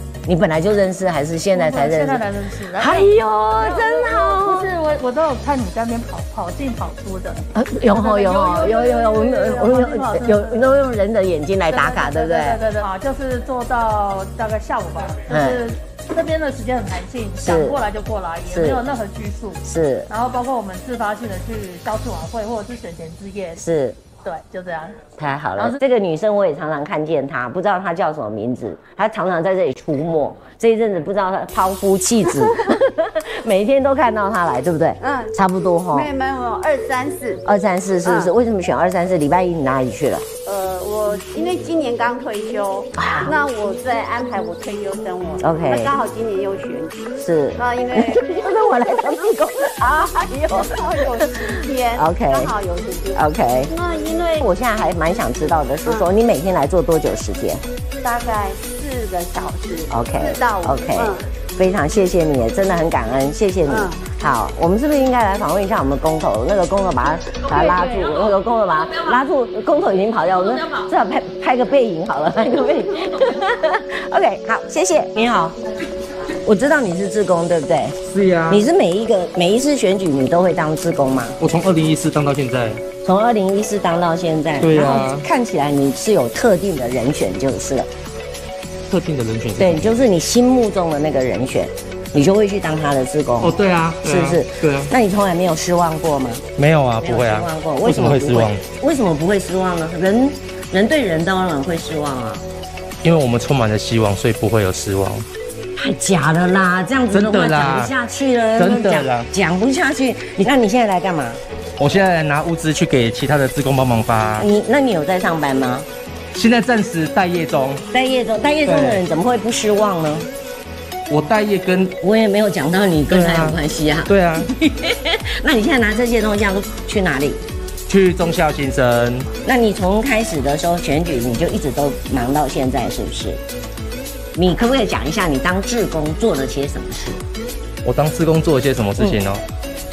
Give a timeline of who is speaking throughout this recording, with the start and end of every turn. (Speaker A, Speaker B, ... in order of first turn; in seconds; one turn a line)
Speaker A: 0.2-4.7
Speaker B: 1.5-10.8
Speaker A: 7.5-12.6
Speaker B: 11.7-23.6
Speaker A: 15.3-15.6
Speaker A: 17.4-17.8
Speaker A: 18.5-18.9
Speaker A: 19.6-20.1
Speaker A: 23.6-24.0
Speaker B: 24.2-25.0
Speaker A: 25.2-36.1
Speaker C: 35.0-35.3
Speaker C: 35.9-37.4
Speaker A: 37.4-40.3
Speaker C: 38.0-38.3
Speaker C: 40.4-54.5
Speaker A: 43.0-43.4
Speaker A: 45.4-45.9
Speaker A: 47.2-52.5
Speaker A: 53.1-53.7
Speaker A: 54.4-57.6
Speaker C: 58.0-61.2
Speaker A: 59.9-75.6
Speaker C: 63.7-64.0
Speaker A: 76.3-81.4
Speaker D: 78.1-78.6
Speaker D: 81.4-82.8
Speaker A: 83.0-87.9
Speaker D: 84.6-85.2
Speaker D: 88.9-89.9
Speaker A: 89.6-96.4
Speaker D: 93.4-94.9
Speaker D: 96.6-98.6
Speaker A: 97.0-102.4
Speaker D: 103.0-105.2
Speaker A: 105.8-111.4
Speaker D: 107.1-107.9
Speaker D: 108.6-109.3
Speaker D: 111.8-114.5
Speaker A: 114.4-115.9
Speaker D: 116.3-117.8
Speaker A: 117.9-120.3
Speaker D: 118.7-119.0
Speaker D: 121.1-122.0
Speaker A: 122.0-127.4
Speaker D: 123.1-124.5
Speaker D: 127.9-129.3
Speaker A: 129.4-133.4
Speaker A: 134.3-137.2
Speaker D: 137.8-139.4
Speaker A: 139.0-139.2